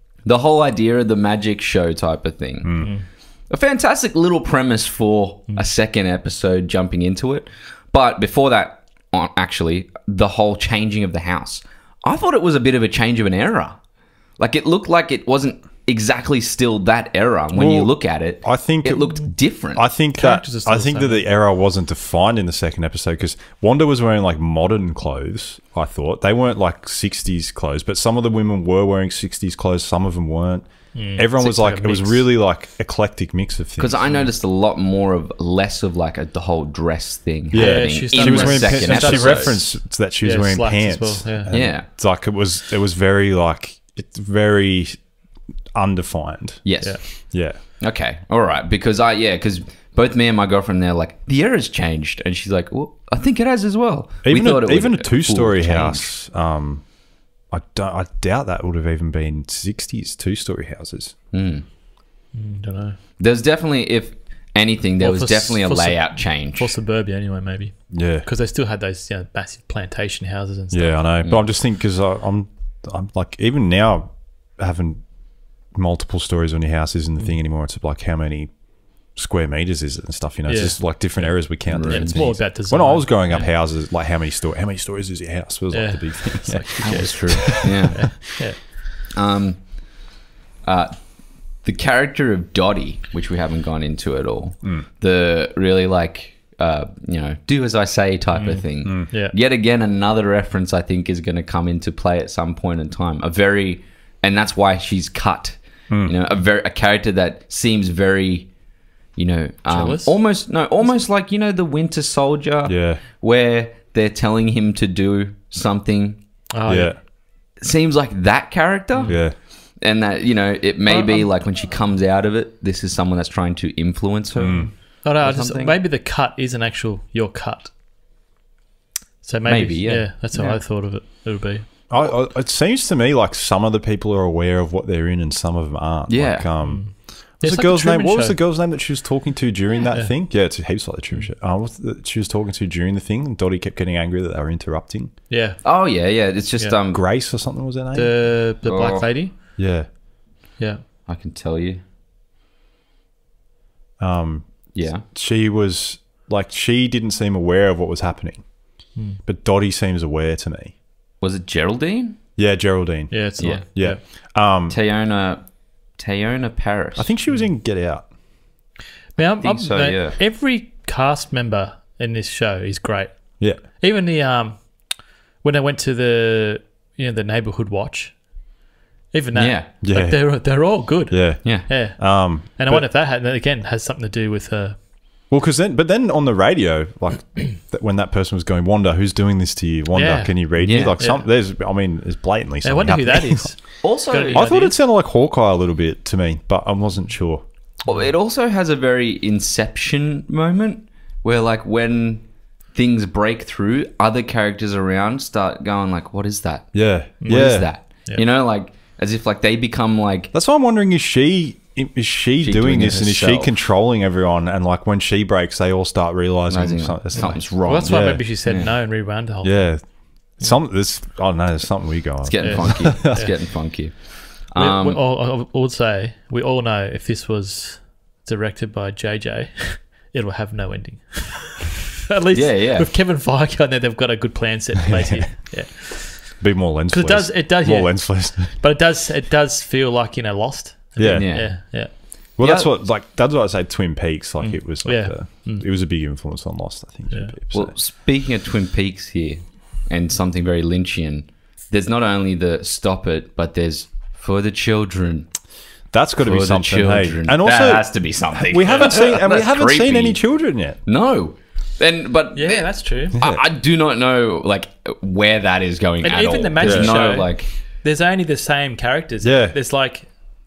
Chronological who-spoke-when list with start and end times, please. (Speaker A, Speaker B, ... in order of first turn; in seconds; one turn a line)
Speaker A: 0.2-13.8
Speaker B: 2.6-2.9
Speaker C: 2.8-3.0
Speaker A: 14.4-19.8
Speaker B: 17.5-34.2
Speaker C: 20.1-21.2
Speaker C: 30.9-32.2
Speaker A: 33.8-39.6
Speaker B: 37.5-45.1
Speaker C: 37.5-41.5
Speaker A: 41.5-41.9
Speaker B: 45.7-47.6
Speaker A: 46.6-56.1
Speaker B: 54.2-57.0
Speaker B: 57.5-61.1
Speaker A: 61.3-61.6
Speaker C: 62.3-63.0
Speaker A: 63.2-66.7
Speaker C: 65.0-71.1
Speaker B: 67.9-68.2
Speaker B: 70.7-88.1
Speaker C: 80.5-83.5
Speaker A: 81.7-82.4
Speaker C: 85.7-89.0
Speaker A: 86.8-88.4
Speaker A: 89.1-90.1
Speaker A: 90.6-108.5
Speaker C: 98.3-99.3
Speaker B: 105.9-106.1
Speaker A: 109.1-116.2
Speaker C: 109.7-110.2
Speaker B: 112.6-113.0
Speaker C: 116.5-117.0
Speaker B: 116.6-117.0
Speaker A: 117.5-125.8
Speaker B: 119.1-119.4
Speaker C: 120.9-121.3
Speaker B: 124.4-124.7
Speaker C: 124.4-127.7
Speaker C: 129.2-131.7
Speaker A: 129.4-130.6
Speaker B: 131.9-145.1
Speaker A: 136.1-136.5
Speaker C: 136.6-138.4
Speaker C: 145.3-145.8
Speaker A: 145.6-147.0
Speaker B: 146.9-148.2
Speaker C: 147.9-149.3
Speaker A: 148.6-149.1
Speaker B: 149.6-149.9
Speaker C: 150.6-150.8
Speaker A: 151.1-151.8
Speaker B: 154.0-158.5
Speaker A: 154.7-155.0
Speaker B: 159.2-160.7
Speaker A: 161.2-162.2
Speaker B: 162.3-164.7
Speaker C: 163.1-164.0
Speaker A: 163.4-164.0
Speaker A: 164.7-167.1
Speaker B: 166.9-168.1
Speaker C: 169.1-178.5
Speaker A: 169.4-170.2
Speaker C: 179.1-184.8
Speaker A: 179.3-179.7
Speaker B: 179.8-182.9
Speaker B: 185.3-193.5
Speaker C: 189.9-191.2
Speaker A: 190.6-191.0
Speaker C: 192.6-194.8
Speaker A: 193.8-194.5
Speaker B: 194.3-197.4
Speaker A: 197.8-210.3
Speaker B: 206.7-207.7
Speaker C: 207.2-208.2
Speaker B: 210.3-218.2
Speaker A: 212.4-213.5
Speaker A: 216.5-218.7
Speaker C: 217.2-219.8
Speaker B: 219.4-223.2
Speaker A: 222.2-225.0
Speaker C: 222.4-241.9
Speaker A: 232.3-232.9
Speaker B: 234.9-235.3
Speaker B: 236.4-238.6
Speaker B: 241.0-241.6
Speaker A: 241.1-241.8
Speaker B: 242.3-247.7
Speaker A: 242.4-242.7
Speaker C: 244.4-245.7
Speaker A: 247.5-255.3
Speaker B: 255.9-260.8
Speaker A: 256.2-260.2
Speaker A: 260.8-267.5
Speaker C: 262.3-263.2
Speaker B: 263.1-263.4
Speaker C: 266.0-270.2
Speaker B: 266.6-267.0
Speaker B: 269.2-269.6